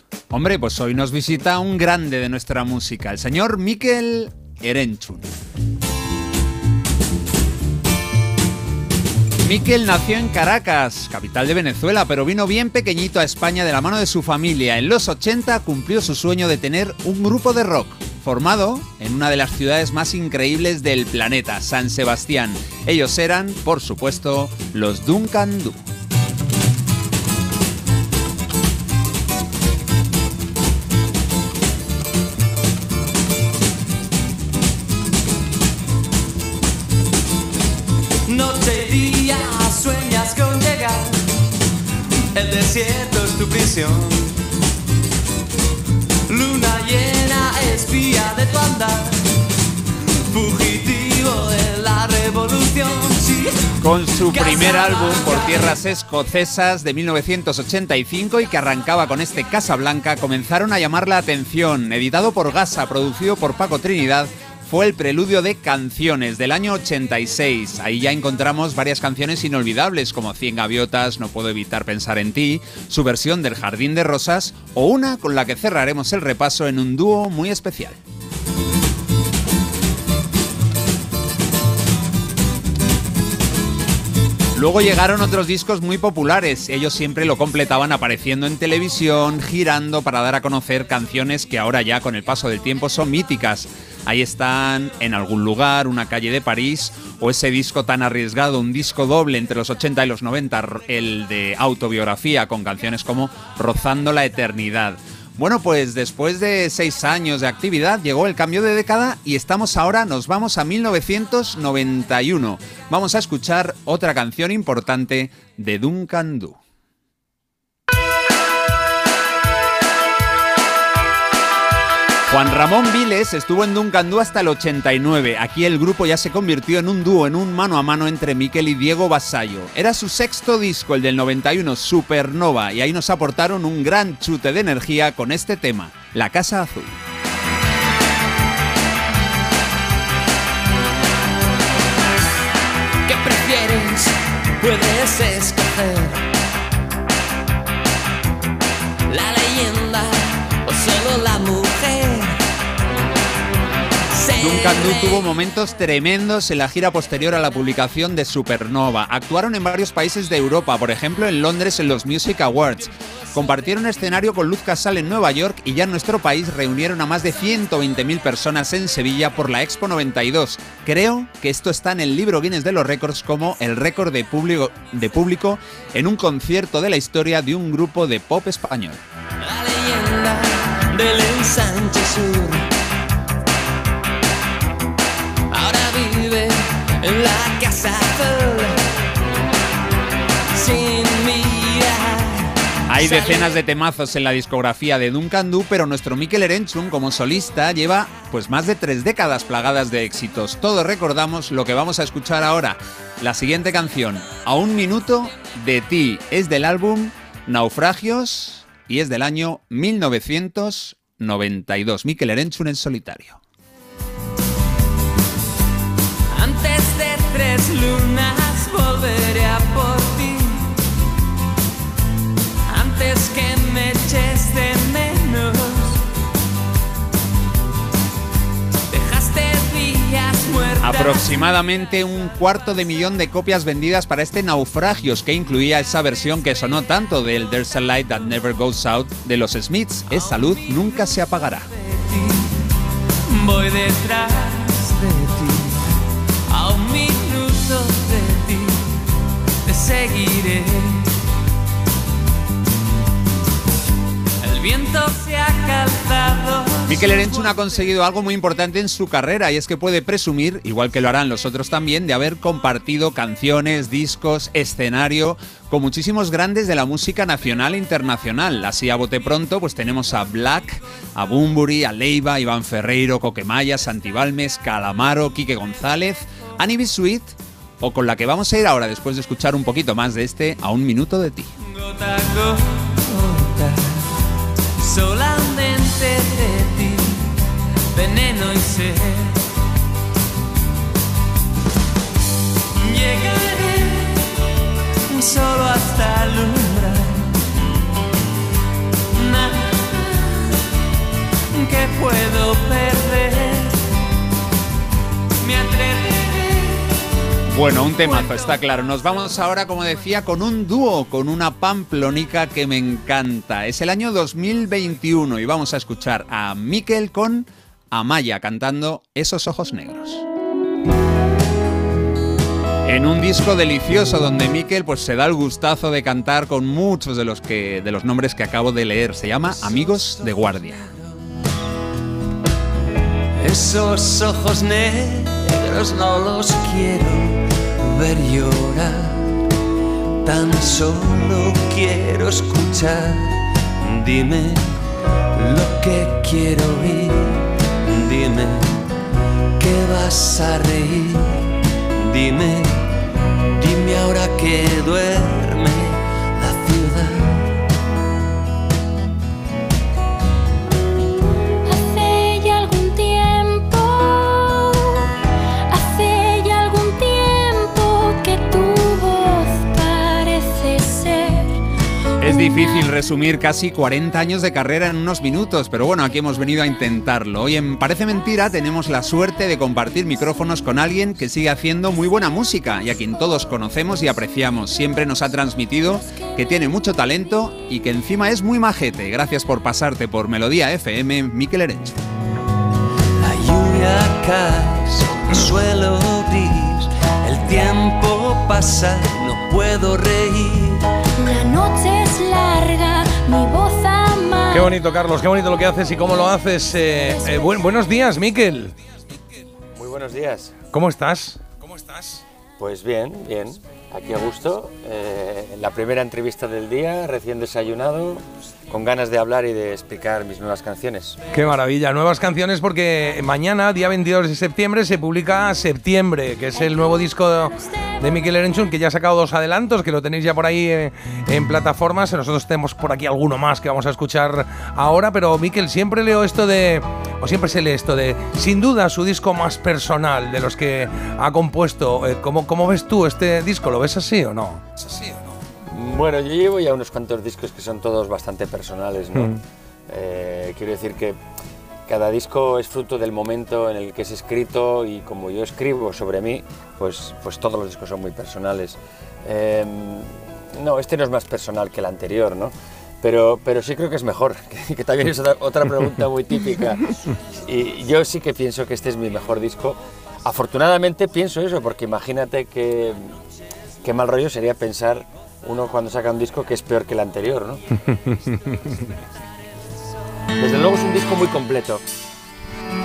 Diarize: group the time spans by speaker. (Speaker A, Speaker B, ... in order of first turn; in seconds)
Speaker A: 0.3-5.3, 9.4-25.8, 53.8-78.0, 84.5-116.6, 122.3-136.9, 154.4-179.0, 192.9-213.4, 230.8-241.7, 256.9-281.5, 307.5-320.2, 322.9-330.9, 372.2-392.0
Speaker B: 38.2-41.3, 42.3-44.4, 46.3-49.3, 50.3-55.8, 143.1-146.2, 149.1-152.4, 154.1-155.3, 179.4-182.7, 185.5-188.8, 190.5-193.6, 216.3-220.7, 222.7-226.0, 228.9-231.5, 240.1-242.6, 243.3-245.8, 246.5-249.0, 249.6-251.1, 254.4-257.9, 281.6-284.1, 284.8-287.3, 287.9-289.4, 292.8-294.4, 295.1-297.4, 299.1-300.4, 301.5-303.8, 305.4-306.8, 307.8-308.6, 329.4-331.2, 333.4-339.4, 340.2-344.7, 345.3-348.8, 349.6-352.9, 353.5-357.5, 393.2-400.9
Speaker C: 361.6-365.1, 365.7-371.6, 372.2-372.9, 401.2-404.7, 427.6-427.9
Speaker D: 404.5-408.8, 410.7-412.2, 421.3-445.1, 449.1-449.4, 477.9-478.6
Speaker E: 409.7-410.5, 412.6-421.2, 445.6-449.3, 449.9-451.2, 451.9-473.2, 473.8-477.6, 480.4-481.8